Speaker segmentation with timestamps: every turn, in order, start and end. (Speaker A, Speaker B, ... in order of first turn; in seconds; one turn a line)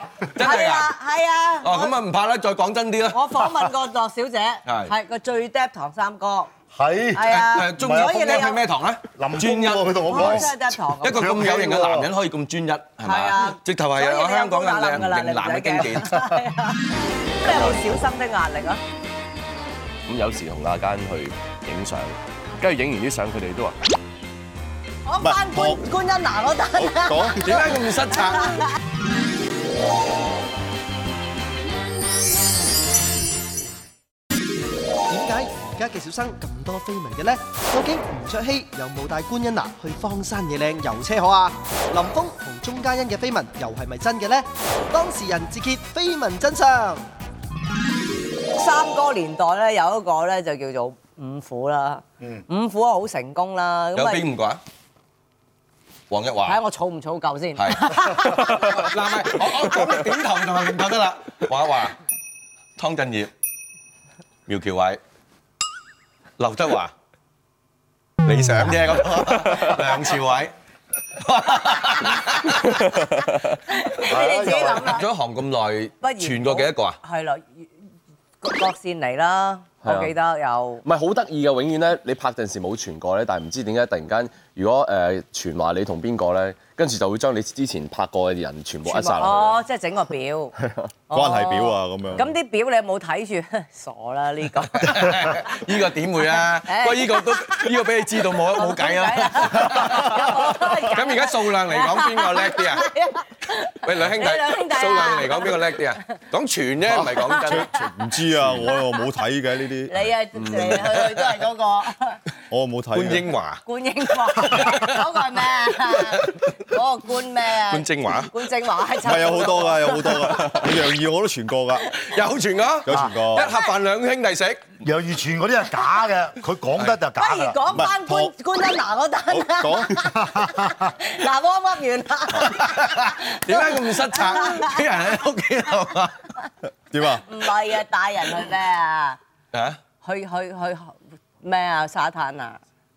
Speaker A: 0.3-0.9
Speaker B: 0.4-1.9
Speaker A: 1.6-3.7
Speaker B: 3.1-6.5
Speaker A: 4.7-4.9
Speaker C: 6.7-8.2
Speaker B: 7.1-8.6
Speaker A: 7.3-10.5
Speaker C: 9.2-12.1
Speaker B: 10.1-11.4
Speaker A: 11.0-16.3
Speaker B: 13.0-18.8
Speaker D: 20.1-23.8
Speaker B: 25.1-28.7
Speaker E: 25.2-25.8
Speaker E: 26.8-27.4
Speaker A: 27.4-28.6
Speaker F: 35.1-47.1
Speaker B: 48.5-54.3
Speaker A: 53.9-54.6
Speaker A: 56.1-56.6
Speaker B: 56.4-59.0
Speaker A: 57.5-62.0
Speaker A: 62.8-63.3
Speaker A: 64.5-65.0
Speaker A: 66.4-66.9
Speaker A: 68.2-70.5
Speaker A: 71.2-72.7
Speaker D: 72.7-73.3
Speaker B: 73.7-75.0
Speaker C: 74.0-75.0
Speaker A: 74.6-77.0
Speaker B: 76.0-77.7
Speaker B: 78.4-80.8
Speaker D: 79.8-80.1
Speaker D: 80.8-89.6
Speaker B: 88.8-90.5
Speaker B: 91.1-95.6
Speaker E: 91.1-92.3
Speaker A: 94.8-102.9
Speaker B: 96.4-97.7
Speaker B: 98.5-105.8
Speaker A: 103.8-107.7
Speaker E: 106.9-110.0
Speaker B: 107.2-107.8
Speaker B: 108.6-109.0
Speaker B: 109.8-112.2
Speaker A: 110.8-111.4
Speaker E: 112.5-113.3
Speaker A: 112.9-113.6
Speaker B: 113.7-120.7
Speaker A: 114.3-115.0
Speaker A: 116.1-116.4
Speaker A: 117.7-118.3
Speaker E: 119.0-121.9
Speaker A: 122.0-124.7
Speaker E: 122.8-123.5
Speaker C: 122.9-123.2
Speaker B: 123.3-123.7
Speaker C: 124.8-127.6
Speaker B: 127.2-134.8
Speaker E: 127.7-128.3
Speaker E: 129.3-130.0
Speaker C: 130.0-130.9
Speaker A: 132.4-136.2
Speaker E: 136.9-137.2
Speaker B: 137.2-139.2
Speaker A: 139.5-139.8
Speaker B: 140.0-142.6